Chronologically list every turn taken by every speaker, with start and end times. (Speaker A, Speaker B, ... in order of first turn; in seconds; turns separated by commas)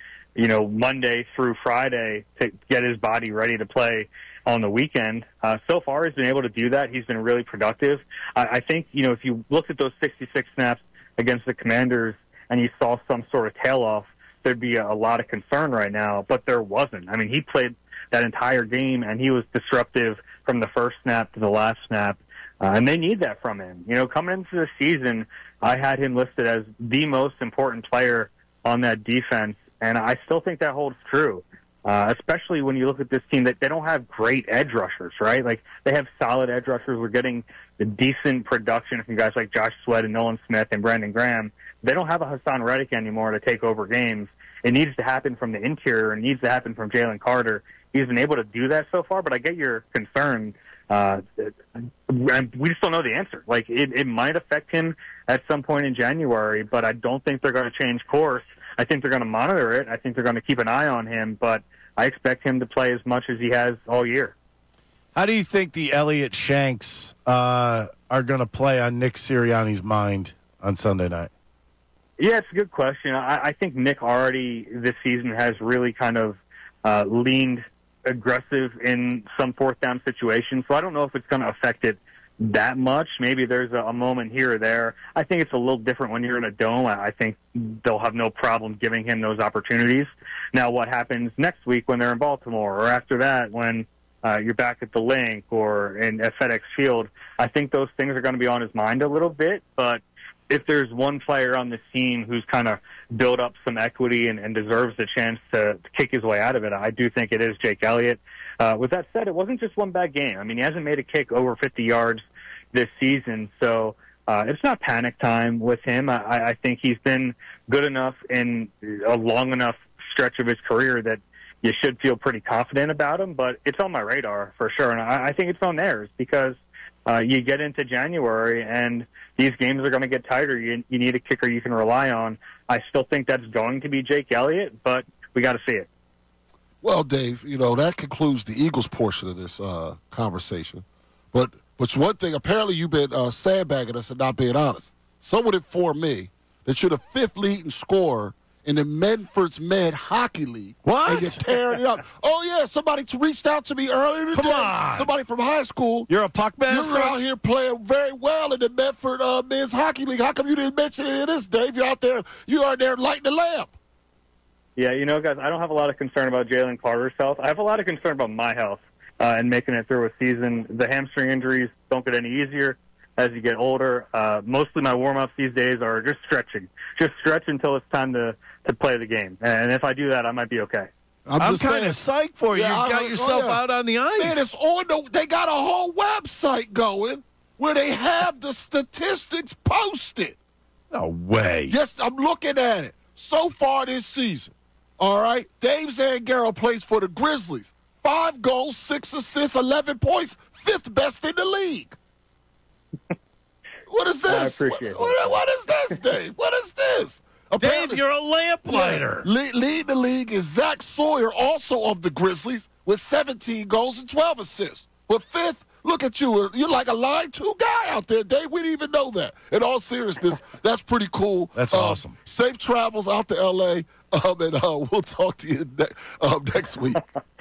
Speaker A: 0.4-51.5, Speaker A: 52.1-64.3, Speaker B: 65.2-71.3, Speaker A: 72.2-135.9, Speaker C: 136.8-156.1, Speaker B: 150.8-151.5, Speaker B: 154.3-155.1, Speaker B: 156.1-157.2, Speaker C: 156.7-163.7, Speaker A: 164.8-180.9, Speaker C: 181.3-182.0, Speaker B: 181.4-184.5, Speaker C: 182.5-183.6, Speaker C: 184.2-190.4, Speaker B: 190.9-191.8, Speaker C: 191.7-202.0, Speaker C: 203.9-208.0, Speaker A: 204.2-205.4, Speaker B: 207.6-209.3, Speaker C: 208.7-227.0, Speaker B: 221.6-222.1